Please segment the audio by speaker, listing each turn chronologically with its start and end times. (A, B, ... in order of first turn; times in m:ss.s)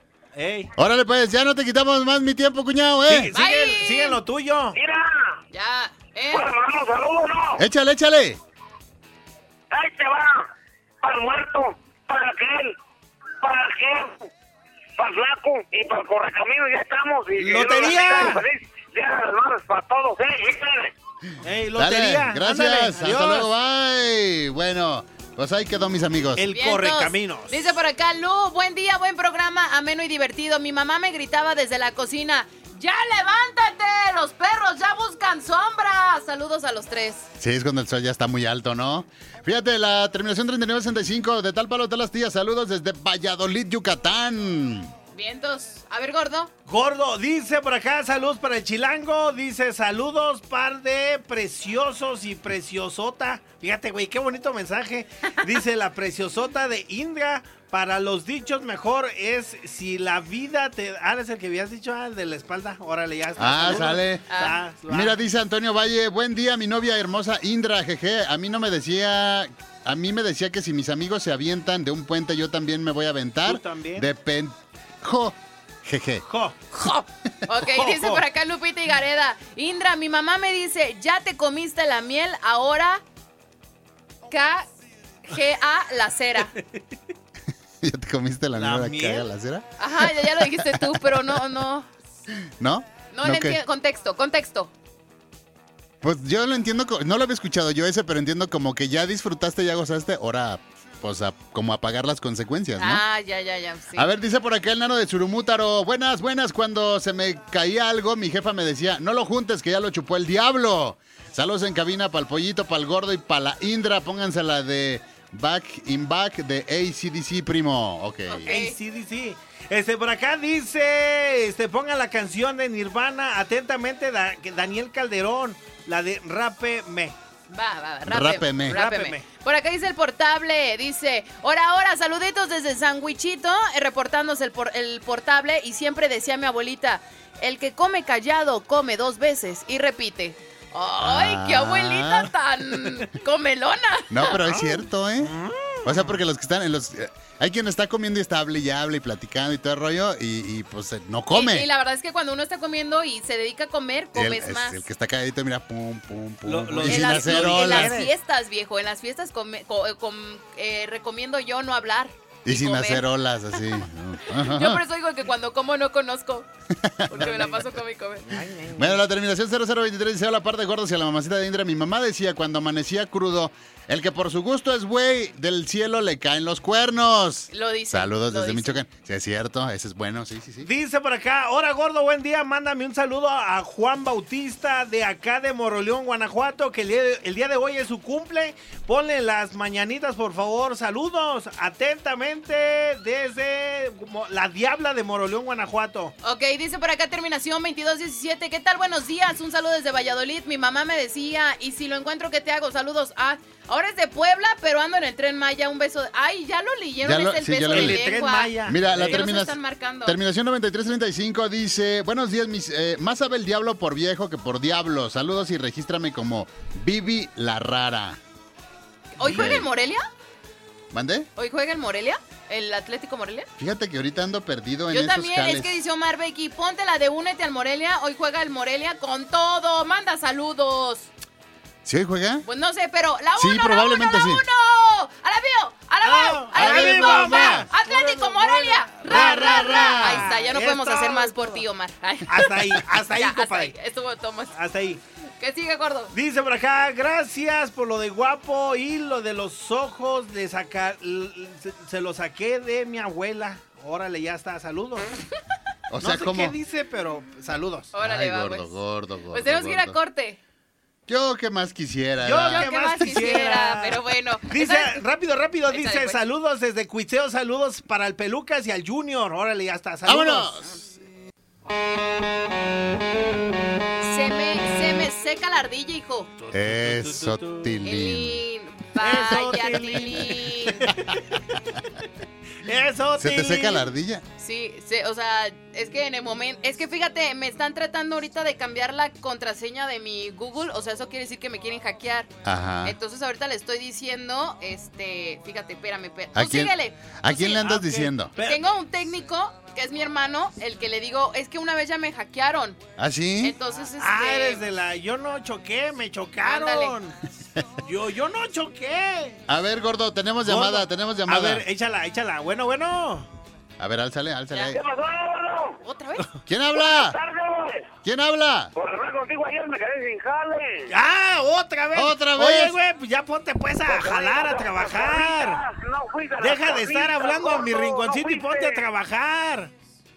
0:00.4-0:00.7 A
0:00.8-0:03.3 B
0:03.1-0:04.8 A
0:03.4-0:04.2 C
0:04.8-0:05.4 D
0:05.5-0:06.5 C
0:06.3-0:07.6 D
0:07.6-0:08.4 B
0:09.7-0:10.5 D
0:11.0-0:12.8 D
0:13.4-0:14.3 D
0:15.0-0:20.9 D
0:17.4-0:18.4 A
0:21.4-0:23.5 A
0:21.8-0:26.5 B
0:26.4-0:27.7 A
0:26.5-0:37.3 C
0:37.4-0:44.9 B
0:45.1-0:46.5 C
0:46.7-1:05.2 A
1:03.4-1:16.2 B
1:04.3-1:04.6 C
1:13.4-1:14.1 A
1:16.3-1:16.6 A
1:16.7-1:23.0 C
1:17.6-1:18.2 A
1:24.3-1:24.7 C
1:25.3-1:26.5 C
1:27.8-1:31.4 B
1:28.6-1:29.3 A
1:29.8-1:31.9 C
1:32.6-1:33.6 B
1:33.1-1:34.7 C
1:36.0-1:43.0 B
1:42.8-1:44.1 C
1:44.0-1:58.5 B
1:58.3-1:58.8 C
1:58.4-2:07.2 A
2:07.5-2:24.5 C
2:08.0-2:08.8 B
2:08.6-2:09.2 A
2:21.0-2:22.3 B
2:24.1-2:31.7 B
2:25.2-2:26.2 A
2:31.3-2:34.8 C
2:34.2-2:38.1 B
2:36.5-2:38.1 A
2:36.8-2:43.1 C
2:42.4-2:44.8 B
2:44.4-2:46.5 C
2:46.8-2:47.5 B
2:47.1-2:48.4 C
2:47.2-2:47.6 A
2:48.3-2:49.0 A
2:48.8-3:00.7 B
2:57.5-2:58.8 C
3:00.6-3:16.1 A
3:16.2-3:30.2 C
3:27.0-3:28.0 B
3:27.7-3:29.2 A
3:28.6-3:38.2 B
3:39.2-3:40.0 C
3:39.2-3:39.7 B
3:40.9-3:41.3 B
3:41.4-3:43.5 C
3:43.6-3:45.7 B
3:44.9-3:51.1 C
3:51.8-3:52.5 B
3:52.4-4:04.6 C
3:53.4-3:54.4 B
3:56.0-4:01.6 A
3:56.5-3:57.7 B
3:59.0-4:00.3 B
4:02.3-4:03.8 A
4:04.6-4:05.0 A
4:05.4-4:06.1 C
4:06.1-4:15.1 A
4:15.9-4:16.6 B
4:16.0-4:17.9 A
4:17.9-4:18.8 C
4:18.0-4:20.0 B
4:19.3-4:20.4 C
4:21.1-4:23.4 B
4:22.2-4:30.5 A
4:22.5-4:25.0 C
4:25.7-4:26.2 C
4:30.0-4:30.8 B
4:34.0-4:36.3 C
4:36.4-4:37.7 A
4:36.5-4:38.4 B
4:37.8-4:40.9 C
4:39.0-4:41.1 A
4:42.6-4:43.9 A
4:43.2-4:44.2 B
4:44.4-4:52.3 C
4:52.4-4:53.0 B
4:52.8-4:57.7 C
4:56.4-4:58.3 B
4:57.5-4:58.7 A
4:58.4-5:02.8 C
5:03.0-5:03.6 B
5:03.4-5:04.6 C
5:04.0-5:07.2 A
5:06.4-5:07.0 C
5:07.8-5:09.4 A
5:09.5-5:11.6 B
5:10.5-5:13.3 A
5:13.8-5:14.8 B
5:14.7-5:15.8 D
5:15.8-5:16.3 C
5:16.5-5:17.2 B
5:16.8-5:17.9 D
5:18.0-5:18.7 B
5:18.8-5:20.9 D
5:20.9-5:25.6 A
5:21.9-5:22.8 B
5:23.9-5:28.8 D
5:26.4-5:29.7 A